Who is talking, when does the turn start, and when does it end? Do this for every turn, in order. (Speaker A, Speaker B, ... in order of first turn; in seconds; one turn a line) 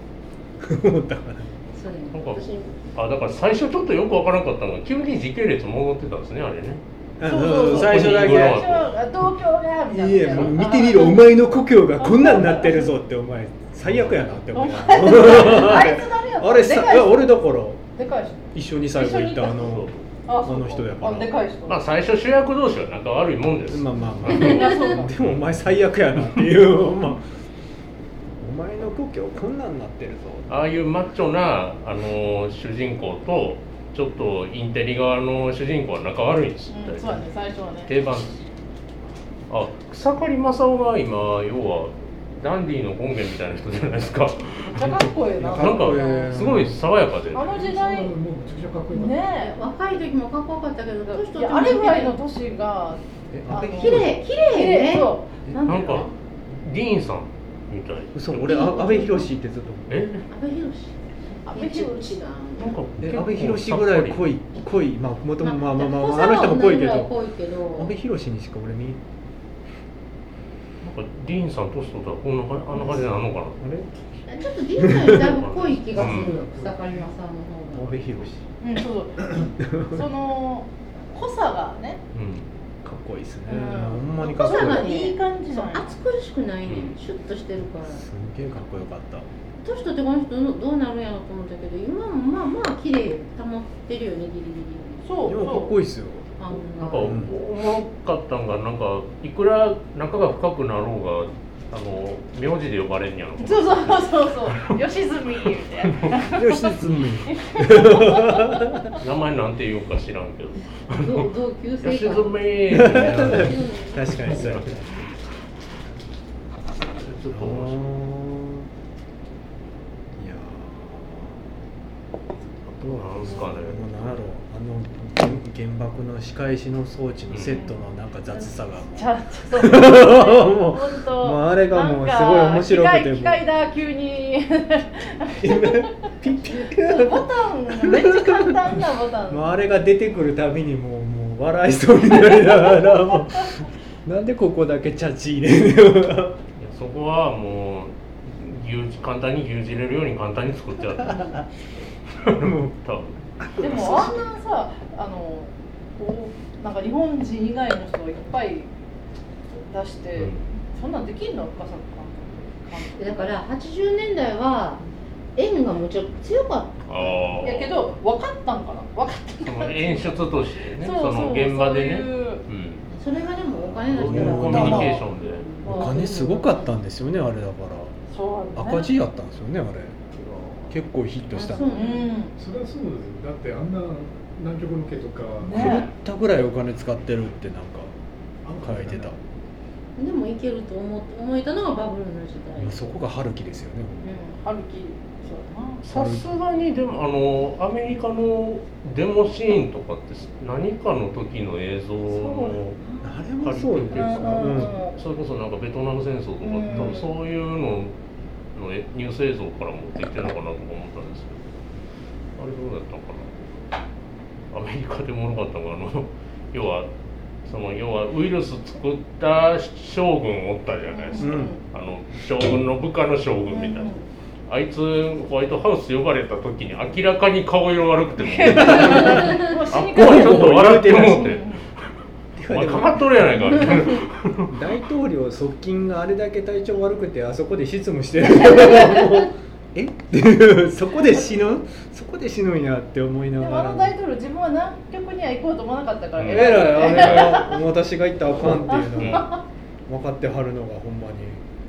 Speaker A: 0.6-1.5
Speaker B: 1.7-2.7
Speaker C: 2.1-6.8
Speaker A: 7.2-8.7
Speaker D: 7.2-11.3
Speaker C: 7.3-8.9
Speaker A: 9.9-17.8
Speaker D: 12.0-12.9
Speaker C: 13.8-14.3
Speaker D: 14.5-17.3
Speaker D: 17.9-21.8
Speaker A: 18.5-19.9
Speaker C: 19.6-20.0
Speaker A: 20.4-21.3
Speaker C: 21.7-25.4
Speaker A: 23.7-27.2
Speaker D: 24.3-25.1
Speaker B: 24.5-25.1
Speaker A: 28.3-30.5
Speaker C: 30.5-37.2
Speaker D: 36.7-37.9
Speaker C: 37.9-38.4
Speaker C: 39.5-47.5
Speaker D: 44.7-46.4
Speaker A: 45.4-46.8
Speaker D: 47.3-48.1
Speaker E: 47.5-49.4
Speaker D: 48.9-49.5
Speaker B: 49.4-52.2
Speaker D: 51.1-55.3
Speaker A: 53.3-54.3
Speaker B: 53.5-56.1
Speaker C: 55.6-56.1
Speaker C: 56.6-58.7
Speaker A: 58.1-60.0
Speaker B: 58.4-59.3
Speaker C: 59.9-60.3
Speaker B: 60.3-61.0
Speaker D: 61.4-62.2
Speaker B: 61.5-62.8
Speaker C: 62.6-64.2
Speaker A: 63.0-67.1
Speaker B: 65.4-67.9
Speaker A: 67.7-69.0
Speaker C: 70.8-73.6
Speaker A: 72.8-73.9
Speaker B: 74.3-78.1
Speaker A: 74.8-75.4
Speaker C: 75.2-76.4
Speaker E: 75.8-77.1
Speaker A: 77.7-78.4
Speaker D: 78.6-82.0
Speaker A: 79.6-80.0
Speaker C: 82.1-82.5
Speaker A: 82.8-84.9
Speaker D: 83.5-85.9
Speaker B: 84.2-88.0
Speaker C: 86.7-87.0
Speaker A: 87.8-89.3
Speaker B: 89.6-95.0
Speaker D: 95.0-95.7
Speaker A: 95.2-96.3
Speaker B: 96.4-97.2
Speaker C: 96.8-104.0
Speaker A: 96.9-97.3
Speaker D: 103.4-108.6
Speaker C: 105.9-106.3
Speaker A: 106.3-108.9
Speaker C: 108.9-115.4
Speaker B: 110.9-114.5
Speaker A: 112.7-115.0
Speaker C: 116.9-117.8
Speaker A: 117.3-118.7
Speaker A: 120.2-121.5
Speaker C: 122.7-124.2
Speaker A: 122.8-133.4
Speaker C: 127.3-127.6
Speaker B: 128.3-129.1
Speaker D: 128.9-136.1
Speaker A: 135.4-138.7
Speaker D: 136.6-139.5
Speaker A: 139.3-146.4
Speaker D: 142.3-143.5
Speaker C: 146.6-151.4
Speaker A: 151.0-151.4
Speaker C: 152.1-153.2
Speaker A: 152.4-152.7
Speaker A: 153.4-154.3
Speaker D: 153.6-158.7
Speaker D: 159.7-163.3
Speaker C: 160.2-160.5
Speaker B: 163.0-164.8
Speaker B: 165.3-167.3
Speaker C: 166.9-167.7
Speaker D: 167.4-172.4
Speaker C: 169.4-172.9
Speaker B: 172.9-176.7
Speaker C: 173.7-175.5
Speaker A: 173.9-175.0
Speaker D: 174.4-175.0
Speaker D: 175.6-176.4
Speaker A: 175.6-177.9
Speaker D: 178.1-178.9
Speaker A: 178.5-180.0
Speaker A: 180.7-181.7
Speaker B: 181.3-182.1
Speaker D: 181.7-182.3
Speaker E: 182.3-185.8
Speaker D: 185.4-185.9
Speaker A: 185.5-187.9
Speaker E: 188.4-189.2
Speaker A: 188.6-189.2
Speaker B: 190.0-192.9
Speaker A: 192.6-194.0
Speaker D: 194.0-195.8
Speaker C: 195.8-202.8
Speaker A: 195.8-196.3
Speaker D: 202.1-203.1
Speaker A: 203.0-204.8
Speaker C: 203.4-207.9
Speaker D: 203.9-205.0
Speaker D: 206.4-207.1
Speaker A: 206.7-207.0
Speaker C: 208.5-211.4
Speaker C: 212.4-213.4
Speaker C: 214.5-216.9
Speaker C: 217.4-223.9
Speaker D: 220.9-221.6
Speaker A: 221.2-221.5
Speaker D: 223.5-224.0
Speaker C: 224.5-231.9
Speaker D: 228.2-231.6
Speaker A: 228.5-231.3
Speaker A: 232.3-233.9
Speaker C: 232.5-234.5
Speaker A: 234.5-243.9
Speaker D: 243.4-247.6
Speaker C: 246.2-247.3
Speaker A: 246.3-249.3
Speaker D: 248.4-249.3
Speaker C: 248.9-249.3
Speaker A: 249.9-251.4